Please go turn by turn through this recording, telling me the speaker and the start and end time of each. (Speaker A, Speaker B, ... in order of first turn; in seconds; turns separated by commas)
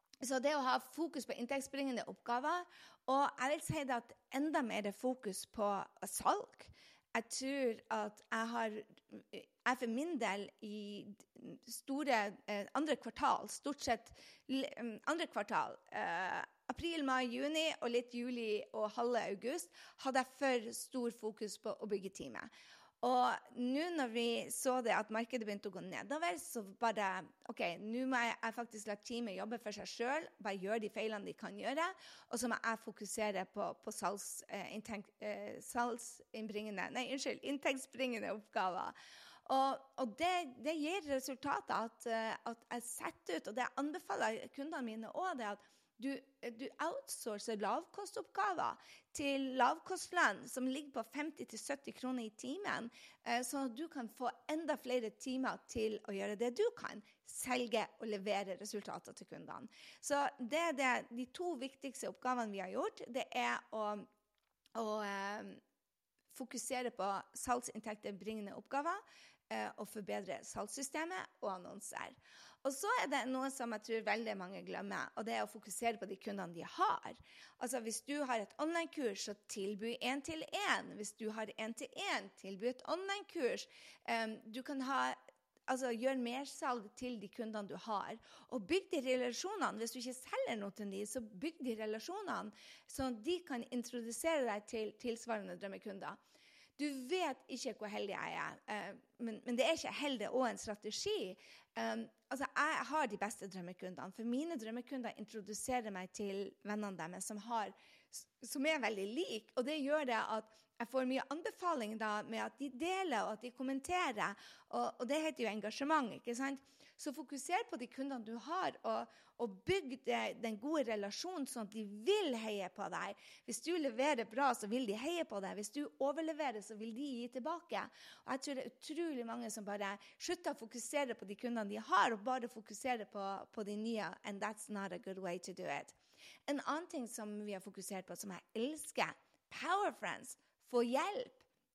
Speaker A: 0.2-22.5, Speaker A: 23.0-38.9, Speaker A: 39.5-64.1, Speaker A: 64.8-65.6, Speaker A: 66.3-85.2, Speaker A: 85.7-96.2, Speaker A: 96.8-136.0, Speaker A: 136.5-141.4